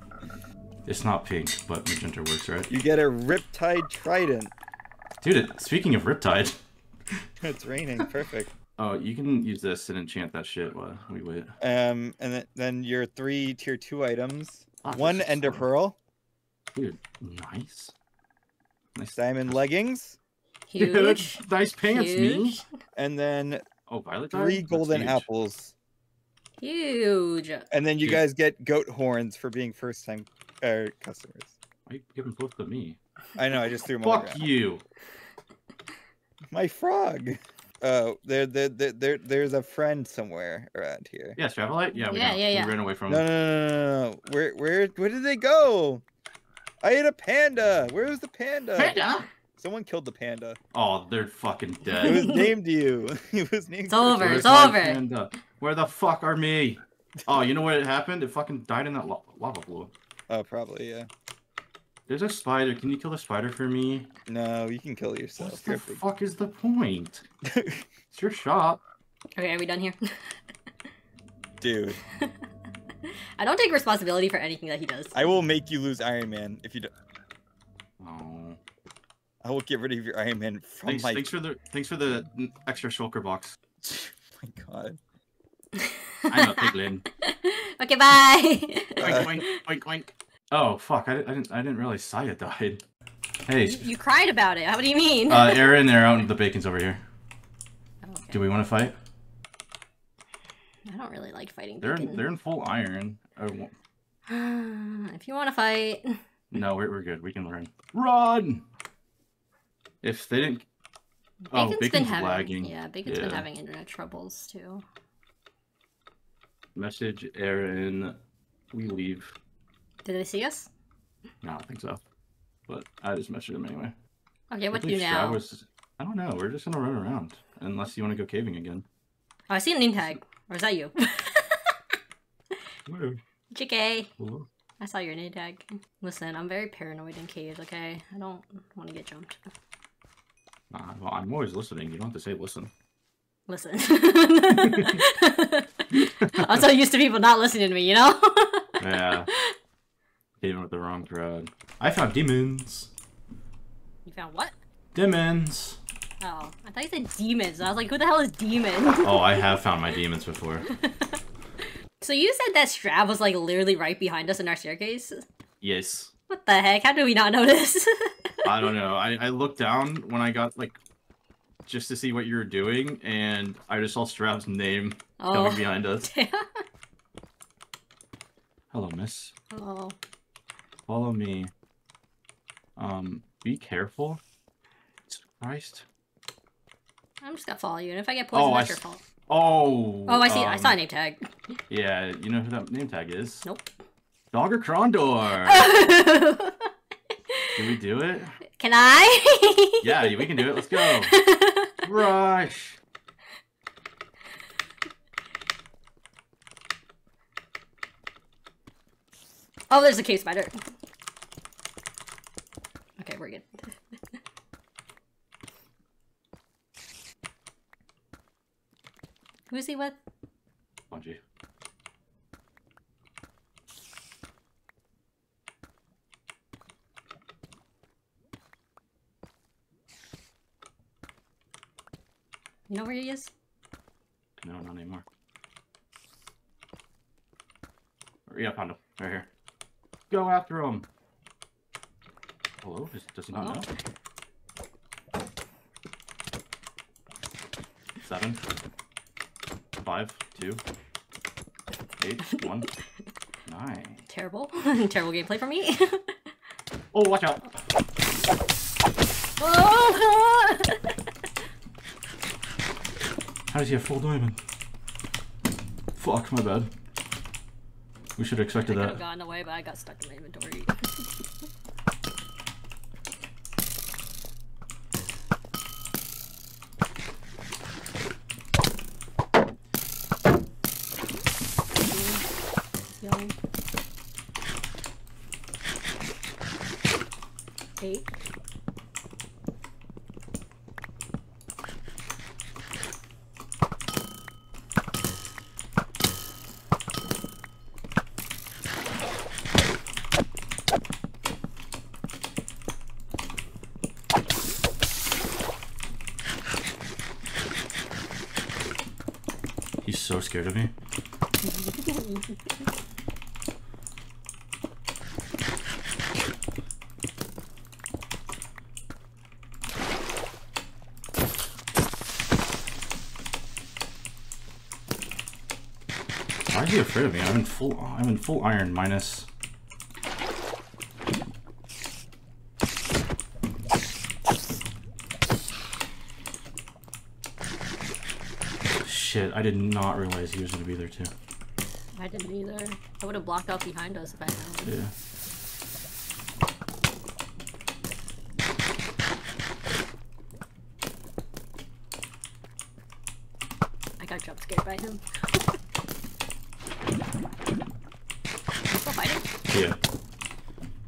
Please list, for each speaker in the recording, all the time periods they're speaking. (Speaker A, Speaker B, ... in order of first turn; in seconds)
Speaker A: 0.8-2.7, 5.2-6.6, 8.8-11.5, 14.8-15.6, 16.7-17.9, 18.9-19.6, 20.8-22.6, 23.9-25.3, 31.9-33.0, 34.0-34.8, 41.4-43.2, 48.8-49.3, 50.7-52.3, 54.1-59.9, 62.1-64.1, 65.4-67.2, 68.1-68.8, 78.0-78.6, 80.8-83.6, 86.3-87.0, 89.0-92.8, 93.5-93.9, 95.3-97.0, 98.3-99.0, 101.8-103.7, 106.5-108.6, 110.0-110.7, 111.5-113.5, 116.7-118.2, 118.7-119.3, 121.4-122.0, 122.7-123.9, 124.7-128.8, 132.8-133.2, 134.2-134.5, 140.7-142.7, 144.6-145.0, 145.9-146.6, 148.8-149.3, 150.4-152.9, 154.9-155.8, 159.0-160.7, 165.6-166.1, 168.4-170.8, 171.7-176.1, 178.7-179.3, 180.9-181.5, 182.8-184.2, 185.1-185.8, 188.3-190.8, 191.7-193.4, 194.3-195.7, 197.5-198.4, 199.8-201.2, 201.8-202.8, 220.9-221.2, 234.4-235.0, 238.3-239.3, 240.1-240.9, 242.6-243.7, 248.0-248.4, 249.8-250.6, 252.0-252.7, 253.4-254.0, 256.9-257.6, 263.5-264.4, 266.0-266.7, 268.2-269.0, 309.8-310.7, 326.5-329.3, 338.7-341.1, 344.6-344.9, 359.5-359.8
Speaker B: 2.7-4.5, 7.4-8.5, 11.6-16.0, 19.1-20.2, 22.9-23.6, 24.3-25.7, 27.7-31.6, 33.4-34.5, 36.5-41.4, 43.1-46.0, 46.8-49.0, 49.5-50.6, 52.0-54.2, 60.3-61.1, 64.3-66.0, 67.4-67.8, 71.6-72.0, 75.1-76.9, 79.4-81.3, 83.8-85.0, 89.0-89.3
Speaker C: 20.7-22.6, 26.6-27.7, 42.1-42.8, 51.9-52.5, 53.9-55.0, 69.3-70.3, 73.0-75.2, 85.8-86.7, 87.2-89.6, 93.6-95.9, 98.0-98.4, 100.9-102.2, 104.3-106.2, 111.4-114.8, 120.0-120.7, 124.5-125.4, 129.5-131.7, 133.5-134.1, 134.8-139.5, 143.5-148.8, 154.1-154.5, 156.2-159.4, 160.7-161.2, 162.0-165.2, 166.3-168.5, 175.2-176.6, 179.5-179.9, 187.2-189.0, 190.1-191.3, 193.4-193.7, 195.4-196.7, 197.3-197.6, 198.5-201.8, 209.7-210.5, 213.0-213.8, 219.5-220.0, 232.7-233.3, 243.3-243.7, 254.1-256.1, 259.4-260.9, 268.7-271.0, 281.7-282.2, 283.0-283.3, 287.8-288.1, 311.4-312.3, 342.0-344.7, 354.0-355.4, 358.7-359.2